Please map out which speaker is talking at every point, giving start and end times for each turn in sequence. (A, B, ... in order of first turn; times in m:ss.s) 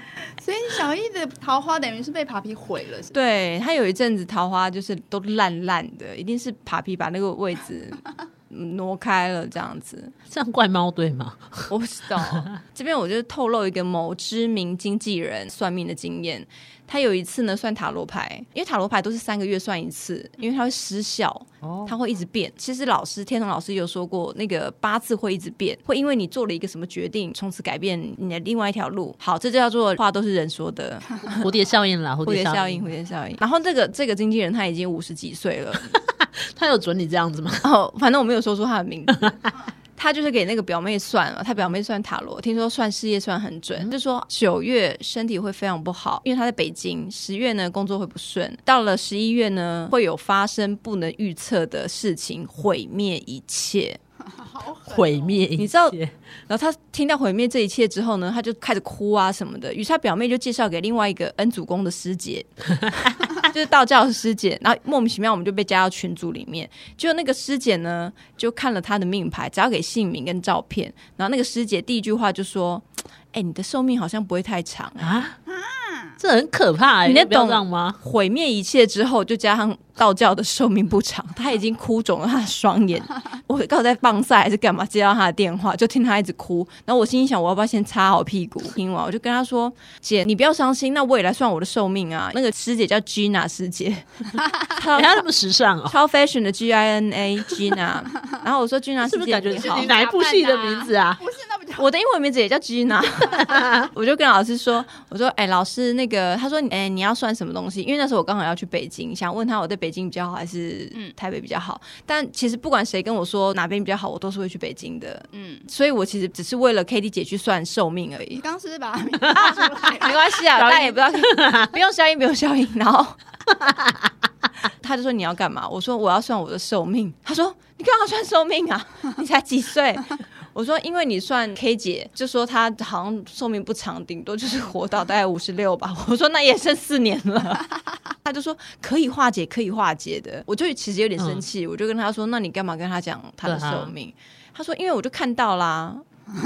0:00.4-0:03.1 A
0:03.1-0:10.1 B
0:10.3-0:11.7 C
0:11.7-0:31.5 B
0:12.2-0:12.6 C
0:21.6-0:21.9 C
0:31.3-0:32.9 C
0:32.2-0:36.0 B
0:36.1-0:37.7 C
0:37.6-0:39.4 B
0:40.0-0:54.0 B
0:54.3-0:55.4 A
0:54.9-0:56.1 C
0:55.6-0:56.0 B
0:56.5-1:02.5 B
1:03.0-1:03.4 C
1:03.3-1:15.2 B
1:15.0-1:15.3 C
1:15.4-1:16.2 A
1:16.2-1:18.0 C
1:17.0-1:35.2 B
1:34.9-1:36.0 C
1:35.9-1:39.9 B
1:39.0-1:41.2 C
1:39.5-1:41.9 A
1:41.8-1:58.4 B
1:43.4-1:43.9 C
1:55.3-1:55.7 A
1:58.4-2:00.4 A
1:59.4-2:03.2 B
2:00.5-2:01.7 C
2:03.7-2:03.9 C
2:04.8-2:17.6 B
2:18.2-2:26.0 B
2:21.2-2:21.4 C
2:23.4-2:23.9 C